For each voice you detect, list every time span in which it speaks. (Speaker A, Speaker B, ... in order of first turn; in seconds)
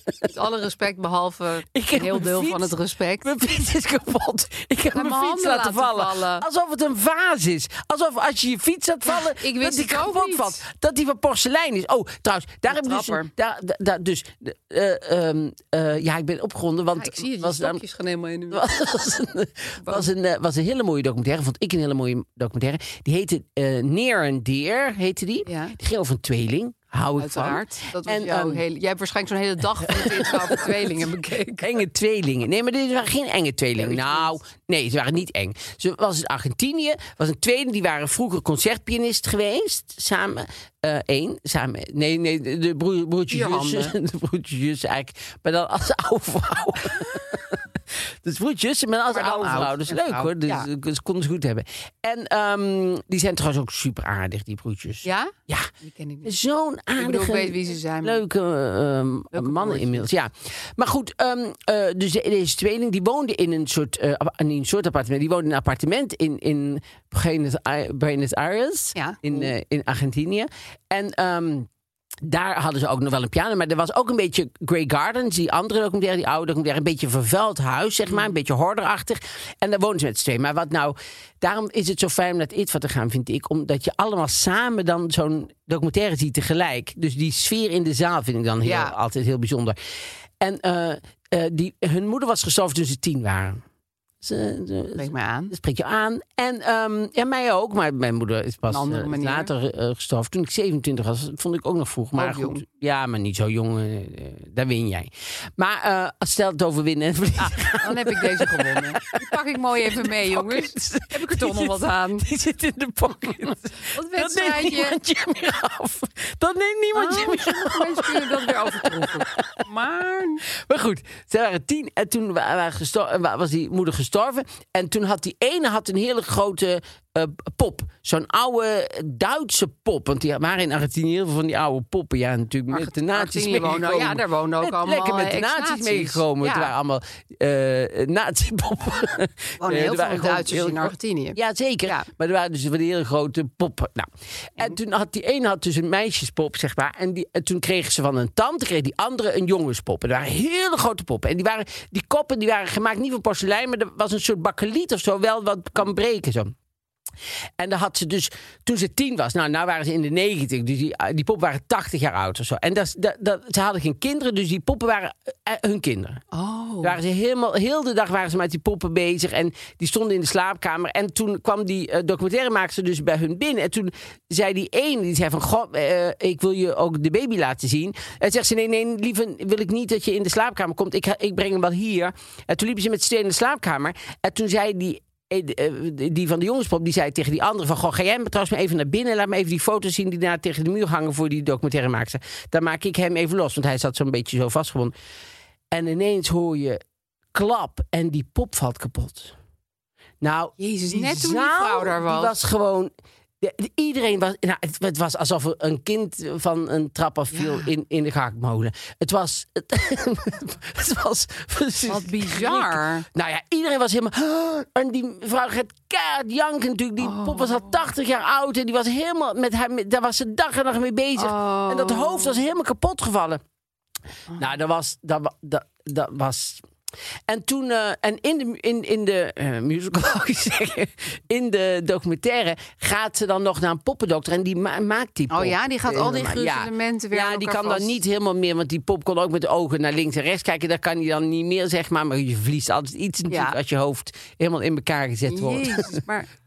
Speaker A: 0.3-3.3, 4.9-6.5, 9.1-10.6, 12.7-13.3, 16.9-18.6, 19.8-20.1, 25.4-25.8, 27.1-31.8, 33.8-34.3, 43.3-43.9, 49.1-50.7, 55.0-56.3, 57.0-58.2, 59.3-60.1, 68.9-69.5, 78.1-78.3, 88.6-88.9, 94.9-95.5, 98.7-99.5, 102.1-102.6, 107.4-112.3, 113.9-115.0, 116.9-120.4, 132.7-136.7, 139.6-142.1, 166.3-167.0, 200.6-202.3, 207.3-207.7, 211.9-213.1, 217.0-217.8, 221.2-222.4, 235.3-238.0, 243.3-243.6, 245.3-246.3
Speaker B: 1.7-17.8, 18.5-28.6, 29.9-30.9, 31.6-55.7, 56.2-71.7, 72.2-89.8, 90.4-93.6, 94.2-109.2, 109.9-119.5, 120.6-156.5, 157.6-166.2, 166.8-194.9, 195.7-196.8, 197.3-199.3, 200.2-223.4, 224.3-226.6, 227.3-246.0